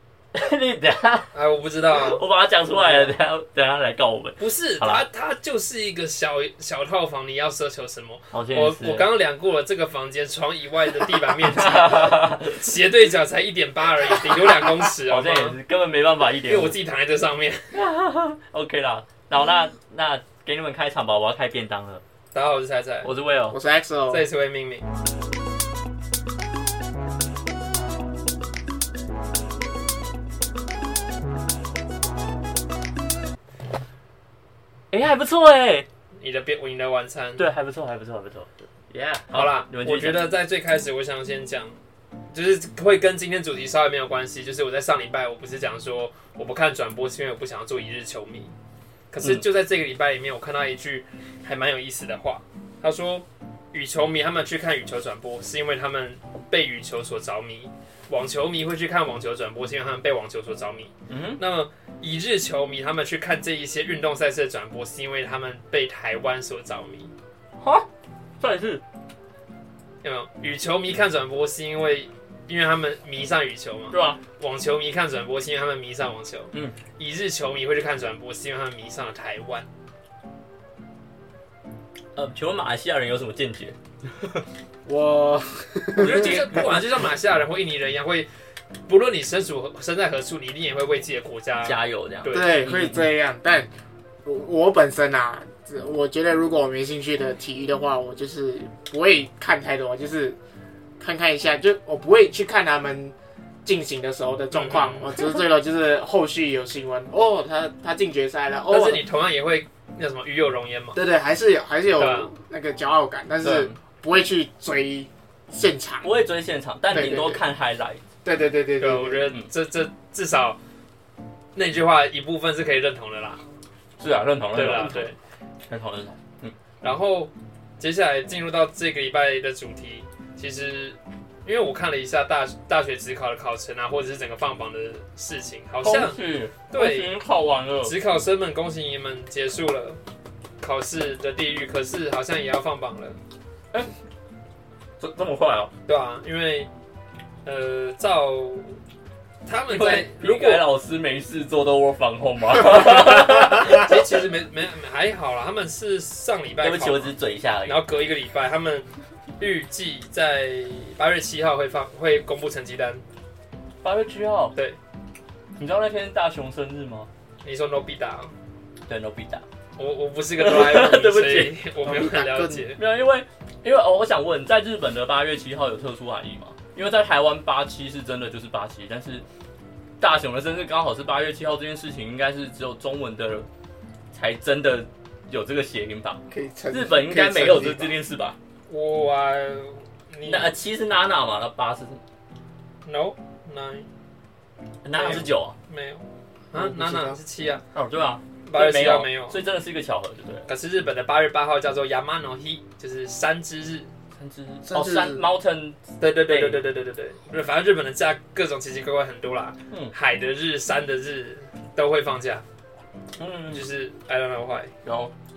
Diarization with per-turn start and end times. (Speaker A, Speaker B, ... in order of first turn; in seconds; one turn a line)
Speaker A: 0.3-1.3
Speaker B: 1.3-2.2
Speaker A: 1.9-5.0
Speaker B: 4.4-15.6
Speaker A: 8.3-9.1
Speaker A: 11.3-12.6
Speaker A: 14.5-16.8
Speaker B: 16.4-17.8
Speaker A: 17.7-22.0
Speaker B: 22.3-23.1
Speaker A: 23.0-23.6
Speaker C: 23.5-24.3
Speaker B: 24.1-24.9
Speaker A: 34.9-35.9
Speaker B: 36.2-37.5
Speaker A: 37.4-40.3
Speaker B: 39.3-41.8
Speaker B: 42.3-48.5
Speaker B: 49.1-67.1
Speaker A: 49.2-49.5
Speaker A: 61.1-61.4
Speaker A: 67.6-67.9
Speaker A: 68.4-68.8
Speaker B: 70.0-79.7
Speaker A: 73.9-74.2
Speaker A: 76.5-76.8
Speaker A: 82.2-84.4
Speaker C: 84.9-86.7
Speaker B: 86.0-88.3
Speaker A: 86.0-86.8
Speaker B: 88.9-92.6
Speaker A: 91.6-93.0
Speaker C: 92.3-93.7
Speaker C: 94.2-100.4
Speaker C: 101.0-109.0
Speaker B: 104.5-105.2
Speaker B: 108.7-111.0
Speaker C: 110.9-116.1
Speaker B: 112.0-112.3
Speaker A: 113.4-113.8
Speaker A: 116.0-118.0
Speaker C: 116.9-117.4
Speaker C: 118.2-119.3
Speaker B: 118.8-120.6
Speaker B: 121.5-123.4
Speaker A: 124.0-125.1
Speaker B: 124.5-125.2
Speaker A: 125.7-126.5
Speaker B: 126.8-137.2
Speaker A: 135.8-138.0
Speaker B: 137.8-140.0
Speaker B: 140.6-143.2
Speaker A: 145.0-145.7
Speaker B: 145.9-146.7
Speaker B: 147.4-148.8
Speaker B: 149.4-150.7
Speaker A: 149.7-153.9
Speaker B: 153.1-157.2
Speaker A: 156.6-157.8
Speaker B: 157.7-158.9
Speaker B: 159.4-163.0
Speaker A: 163.8-164.6
Speaker A: 165.6-167.1
Speaker B: 167.4-168.3
Speaker A: 168.9-169.4
Speaker B: 169.8-172.8
Speaker A: 170.4-171.6
Speaker C: 171.8-172.7
Speaker A: 172.8-179.2
Speaker A: 180.0-183.5
Speaker A: 184.1-188.4
Speaker C: 186.3-188.0
Speaker B: 188.7-190.5
Speaker A: 190.2-192.0
Speaker B: 192.8-193.9
Speaker A: 194.8-195.6
Speaker B: 194.9-197.6
Speaker C: 196.6-197.2
Speaker A: 197.7-200.5
Speaker B: 198.4-199.4
Speaker B: 200.5-203.9
Speaker A: 204.2-206.6
Speaker C: 204.7-205.3
Speaker B: 206.0-212.4
Speaker A: 213.2-213.7
Speaker B: 213.5-214.7
Speaker A: 214.8-215.1